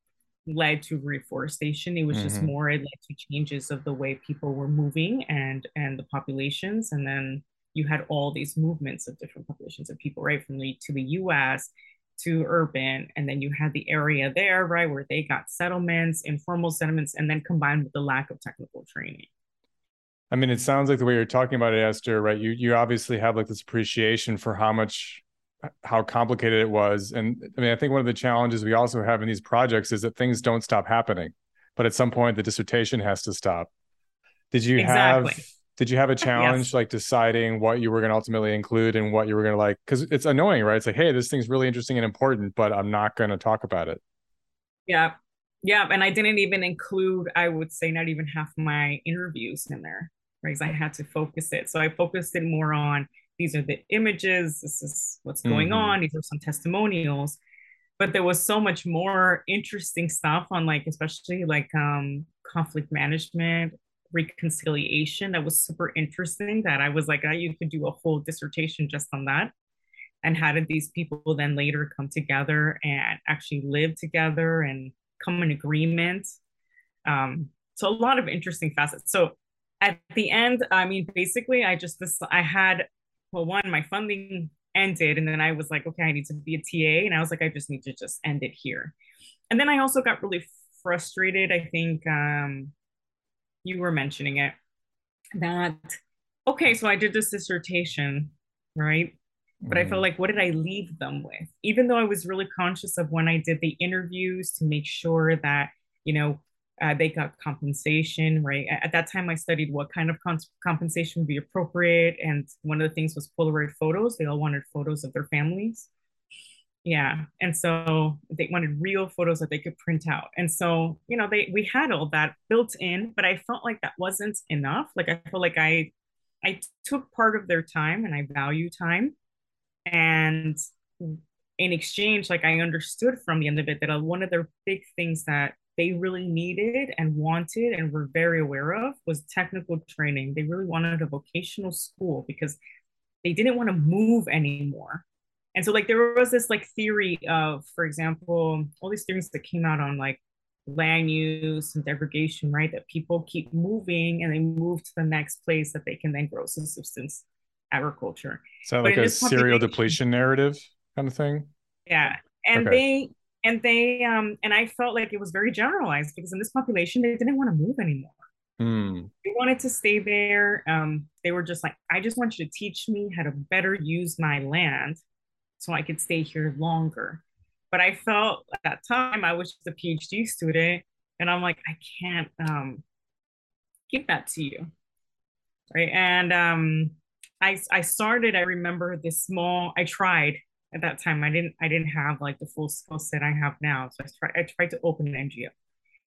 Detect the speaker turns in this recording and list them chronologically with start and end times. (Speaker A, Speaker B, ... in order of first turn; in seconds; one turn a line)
Speaker A: 0.5-19.3
Speaker B: 2.1-2.5
Speaker B: 20.3-33.7
Speaker B: 34.5-44.0
Speaker A: 34.8-35.4
Speaker A: 36.3-36.7
Speaker A: 44.9-57.4
Speaker B: 55.5-56.0
Speaker A: 58.0-69.5
Speaker A: 70.2-76.3
Speaker A: 77.1-89.0
Speaker A: 89.5-92.7
Speaker A: 93.6-94.5
Speaker A: 95.4-99.2
Speaker B: 99.6-100.0
Speaker A: 99.7-115.9
Speaker A: 116.8-125.9
Speaker A: 126.4-129.2
Speaker A: 129.9-142.6
Speaker A: 143.2-145.0
Speaker A: 145.6-160.0
Speaker B: 158.7-161.5
Speaker A: 161.9-168.2
Speaker B: 162.6-162.8
Speaker B: 168.6-169.1
Speaker A: 169.2-175.0
Speaker A: 175.6-182.8
Speaker A: 183.9-184.7
Speaker A: 185.7-195.5